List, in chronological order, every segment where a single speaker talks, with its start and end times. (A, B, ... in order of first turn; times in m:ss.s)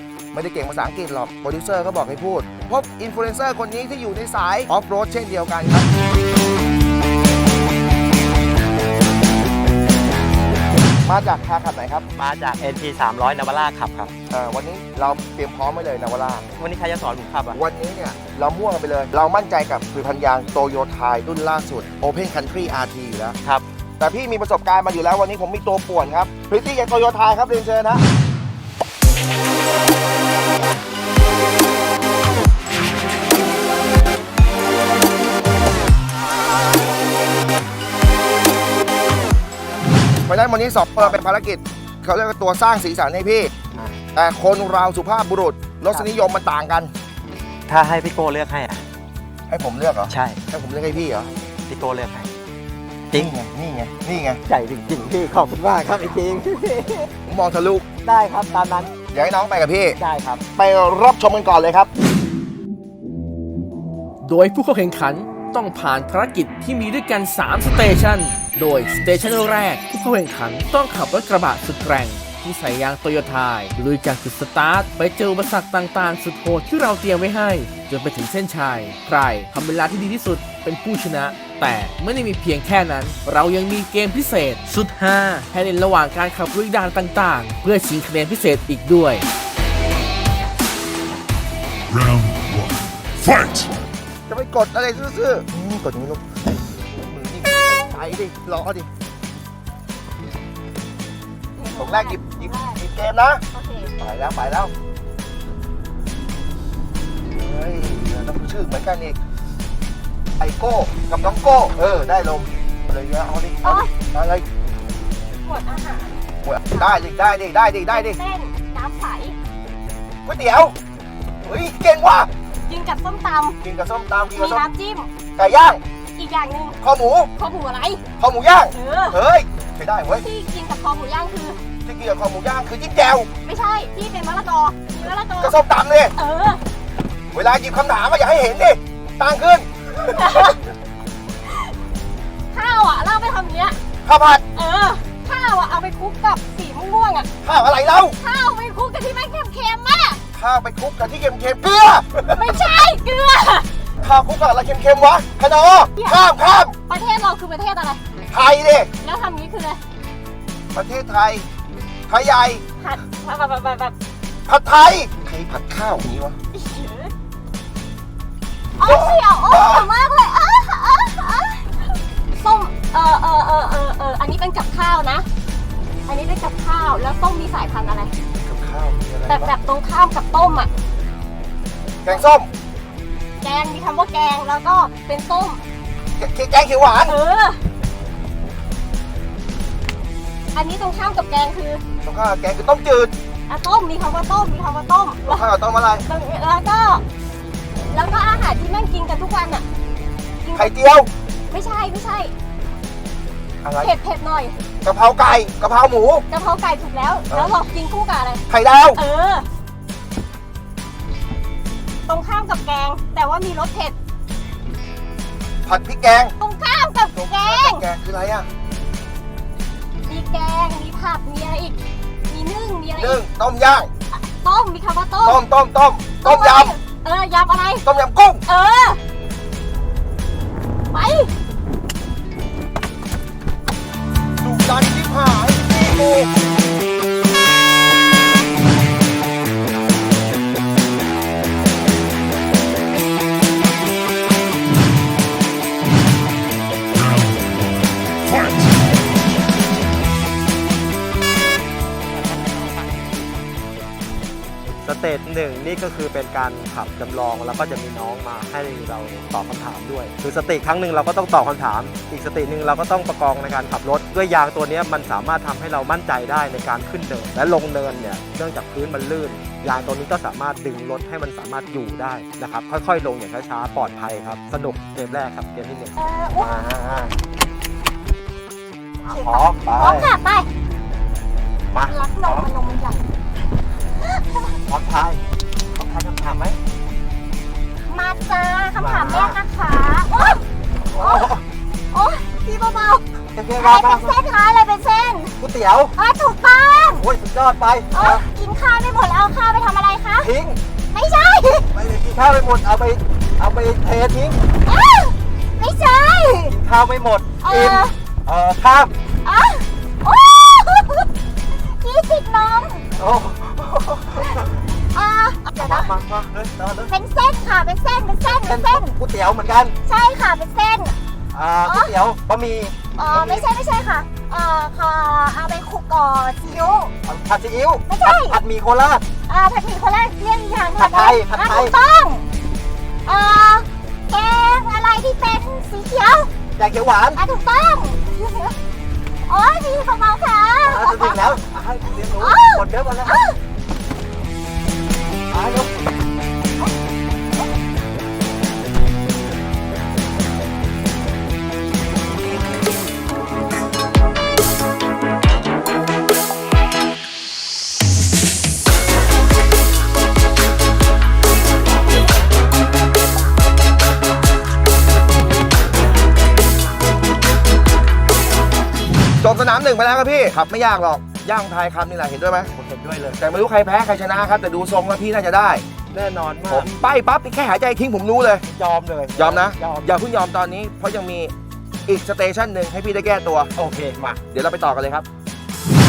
0:00.3-0:05.9 A
0:11.0-0:12.1 A
0:12.2-0:14.1 B
0:14.3-0:16.5 A
0:16.6-0:17.6 B
0:17.5-0:23.4 A
0:24.0-0:28.0 A
0:40.3-0:43.5 A
0:44.2-0:46.9 A
0:47.7-0:48.8 B
0:49.5-0:51.3 A
0:50.1-0:50.4 B
0:51.7-0:52.3 B
0:53.1-0:54.4 A
0:54.5-0:57.1 B
0:57.3-0:57.8 A
0:58.0-0:59.0 B
0:59.1-1:00.0 A
1:00.0-1:00.4 B
1:00.6-1:01.9 A
1:04.2-1:29.3 C
1:31.9-1:33.7 D
1:34.3-1:38.9 A
1:41.6-1:42.8 E
1:41.8-1:43.4 A
1:43.5-1:43.9 E
1:44.0-1:44.7 A
1:47.3-1:49.2 A
1:50.4-1:54.5 A
1:53.6-1:53.9 E
1:55.4-1:56.2 E
1:56.4-1:58.2 A
1:56.7-1:57.0 E
1:57.9-1:59.4 E
2:00.2-2:00.8 A
2:01.4-2:02.3 A
2:02.6-2:03.6 E
2:03.6-2:04.7 A
2:04.3-2:05.1 E
2:05.4-2:05.8 A
2:06.2-2:06.8 E
2:06.8-2:07.3 A
2:07.4-2:08.0 E
2:08.2-2:10.2 A
2:08.7-2:09.2 E
2:10.2-2:11.6 E
2:11.8-2:13.3 A
2:13.4-2:15.6 E
2:15.4-2:16.2 A
2:16.2-2:16.6 E
2:17.3-2:20.5 A
2:20.1-2:20.6 E
2:21.4-2:21.7 E
2:22.5-2:23.8 E
2:24.0-2:24.4 A
2:24.5-2:27.3 E
2:27.4-2:28.2 A
2:28.2-2:30.2 E
2:30.4-2:32.6 A
2:32.3-2:33.7 E
2:34.0-2:36.8 A
2:36.0-2:36.2 E
2:36.9-2:38.0 E
2:38.3-2:38.9 A
2:39.0-2:39.8 E
2:40.7-2:41.5 A
2:42.1-2:42.6 A
2:42.8-2:44.0 E
2:44.5-2:46.4 A
2:46.5-2:47.1 E
2:48.8-2:55.3 E
2:48.8-2:49.9 A
2:56.1-2:58.1 E
2:58.4-2:59.6 A
2:59.3-3:00.7 E
3:02.0-3:02.5 A
3:03.4-3:05.6 E
3:06.2-3:07.2 A
3:07.0-3:07.6 E
3:10.5-3:11.8 E
3:12.0-3:13.1 A
3:13.5-3:15.4 E
3:15.2-3:16.1 A
3:16.0-3:17.0 E
3:17.9-3:19.6 E
3:20.4-3:20.7 E
3:20.5-3:21.1 A
3:21.5-3:22.3 E
3:23.6-3:24.0 A
3:23.8-3:24.6 E
3:24.8-3:26.3 A
3:26.3-3:29.5 E
3:28.5-3:29.0 A
3:32.1-3:34.0 E
3:35.6-3:36.3 A
3:36.4-3:37.8 E
3:37.2-3:38.5 A
3:40.1-3:41.8 E
3:42.3-3:43.2 E
3:43.0-3:43.9 A
3:44.1-3:45.4 E
3:45.2-3:46.8 A
3:46.2-3:47.9 E
3:47.8-3:48.4 A
3:48.5-3:49.0 E
3:50.9-3:51.3 E
3:54.4-3:56.3 A
4:07.0-4:08.8 D
4:14.8-4:37.2 B
4:36.0-4:36.5 E
4:39.0-4:40.2 B
4:39.1-4:40.1 E
4:39.8-4:40.4 F
4:41.7-4:42.5 B
4:41.9-4:43.0 E
4:44.7-4:45.2 B
4:45.8-4:46.6 B
4:47.9-4:49.1 F
4:48.2-4:50.4 E
4:48.8-4:49.4 B
4:50.9-4:51.4 B
4:51.0-4:51.3 E
4:51.9-4:53.0 E
4:52.3-4:52.9 F
4:53.3-4:54.2 B
4:53.6-4:54.2 E
4:54.1-4:55.2 F
4:55.4-4:56.0 B
4:56.0-4:56.9 F
4:56.9-4:58.2 B
4:58.0-4:58.4 E
4:58.4-5:00.1 F
5:00.2-5:00.6 B
5:01.0-5:01.5 F
5:01.7-5:04.4 B
5:04.7-5:06.4 F
5:06.5-5:08.9 B
5:07.5-5:07.9 E
5:09.3-5:10.9 F
5:11.8-5:12.8 F
5:13.0-5:14.6 B
5:15.0-5:15.7 F
5:15.6-5:16.9 B
5:16.9-5:18.9 F
5:18.2-5:19.8 B
5:19.9-5:20.9 F
5:21.3-5:23.5 B
5:23.0-5:26.9 F
5:23.1-5:23.4 E
5:27.0-5:29.0 B
5:27.9-5:28.4 F
5:29.3-5:30.8 F
5:30.5-5:31.7 E
5:30.8-5:31.8 B
5:31.4-5:32.2 F
5:33.1-5:36.3 F
5:36.6-5:37.2 B
5:37.2-5:38.0 F
5:39.3-5:40.7 F
5:40.6-5:43.2 B
5:45.3-5:45.8 B
6:09.2-6:12.5 A
6:12.6-6:13.2 B
6:13.2-6:15.6 A
6:15.9-6:16.7 B
6:16.5-6:18.4 A
6:18.4-6:20.0 B
6:19.2-6:21.3 A
6:21.9-6:23.5 A
6:23.6-6:24.2 B
6:24.3-6:25.1 A